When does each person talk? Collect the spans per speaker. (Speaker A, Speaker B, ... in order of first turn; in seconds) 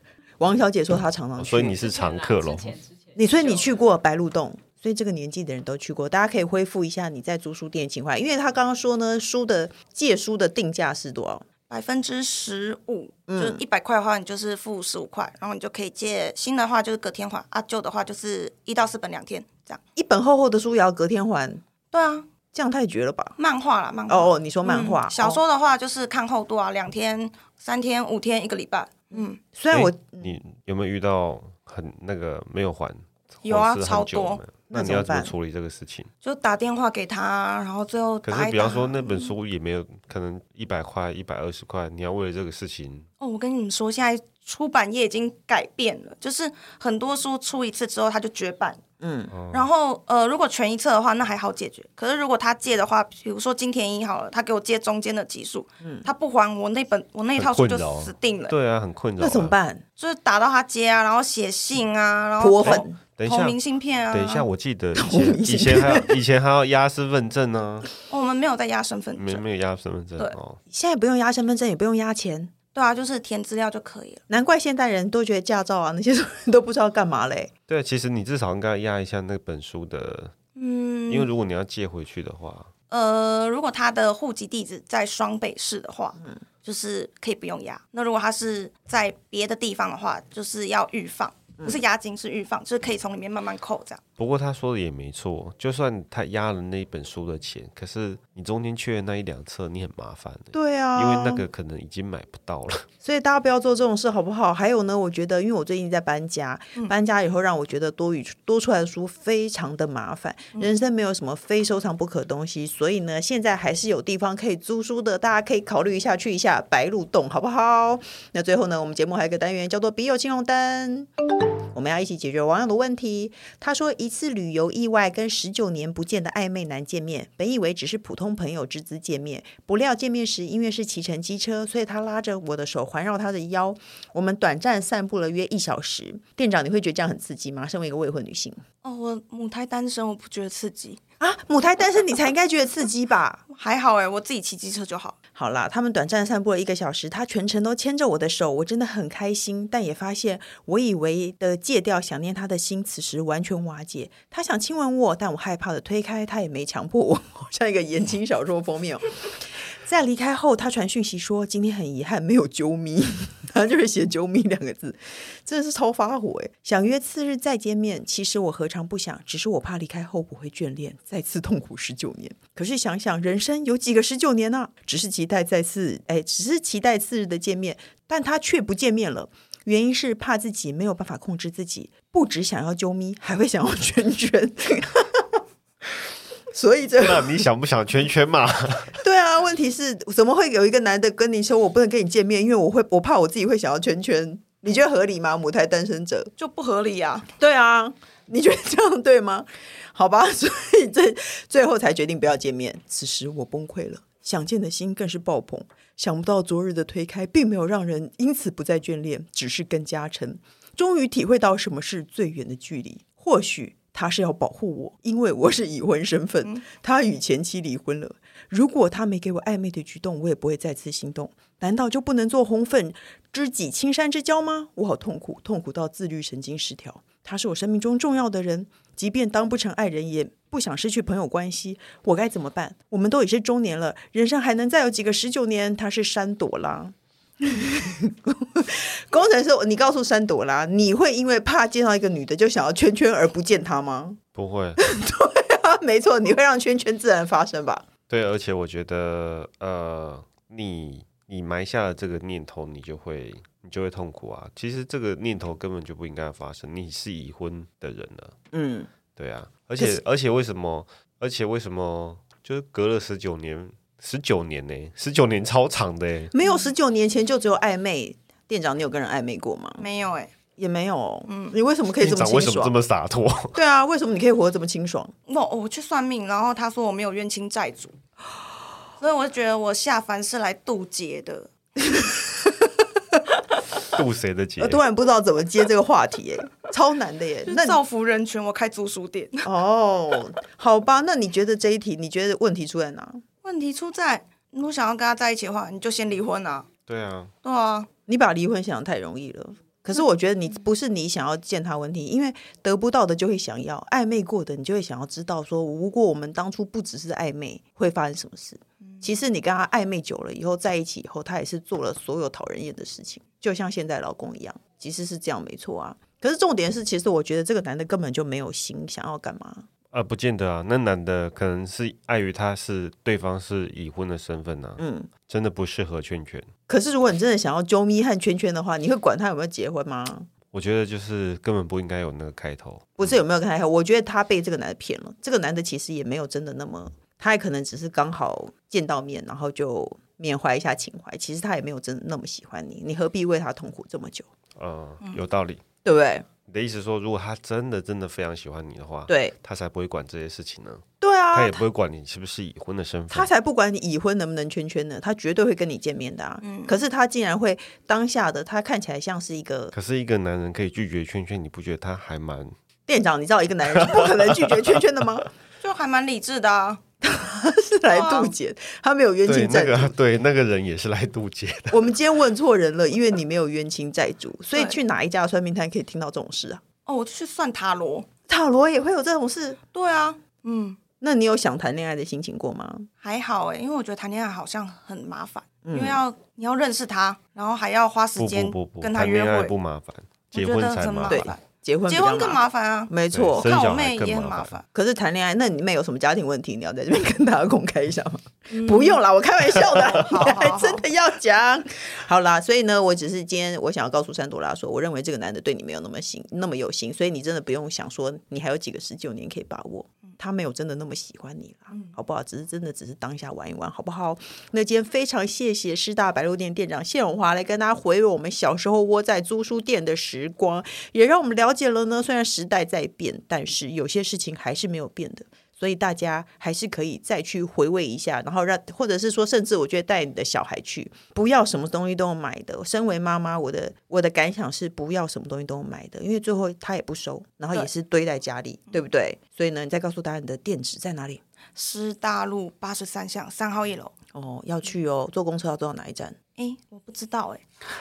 Speaker A: 0.4-1.9, 3.1-11.4, 13.3-13.6, 19.9-21.6, 22.5-23.4, 24.1-25.4, 29.1-30.4, 34.7-35.3, 49.0-49.3, 55.8-56.1, 59.2-59.8, 62.4-63.0, 65.0-66.2, 70.7-72.5, 74.3-77.5, 100.5-101.5, 103.0-121.1, 121.7-138.6, 141.2-143.4, 145.3-185.4, 186.5-187.4, 189.0-196.3, 197.4-244.2, 244.8-247.9, 258.5-258.9, 266.3-269.9, 270.6-272.7, 273.5-275.1, 281.8-282.8, 284.6-287.8, 289.4-293.2, 298.1-319.7, 324.8-325.1, 326.7-330.3, 333.0-344.3, 345.8-346.3, 349.1-349.3, 351.0-351.6, 353.1-359.7, 362.9-365.3, 367.0-369.9, 371.7-376.6, 378.3-379.6, 381.0-382.9, 385.6-386.0, 391.1-393.5, 394.7-441.2, 444.1-446.2
Speaker B: 1.4-2.9, 29.7-36.1, 38.2-43.1, 49.3-49.7, 57.4-59.5, 63.2-67.9, 69.2-70.6, 77.7-80.3, 81.1-82.7, 94.2-102.9, 187.0-189.0, 244.3-244.8, 248.1-258.4, 259.2-266.3, 272.0-273.6, 283.9-284.8, 296.9-297.3, 319.9-326.5, 330.5-333.2, 344.6-345.6, 346.5-353.3, 359.8-362.6, 363.8-364.8, 369.3-371.9, 388.2-391.2, 393.1-394.6
Speaker C: 11.7-19.8, 21.9-22.3, 23.4-29.4, 33.4-34.4, 36.2-39.3, 43.2-48.8, 49.5-58.5, 60.0-64.5, 68.1-69.4, 72.7-74.2, 80.5-81.3, 82.9-94.0, 138.8-141.0, 143.5-145.2, 196.4-197.3, 269.8-270.3, 271.3-271.6, 275.3-278.0, 279.0-281.5, 287.4-289.4, 293.4-296.7, 297.4-297.9, 356.4-356.8, 365.6-366.8, 367.9-368.3, 376.9-378.1, 379.7-380.8, 383.0-389.5, 390.3-394.6, 398.5-399.0, 399.8-400.8, 441.6-443.9, 446.4-447.4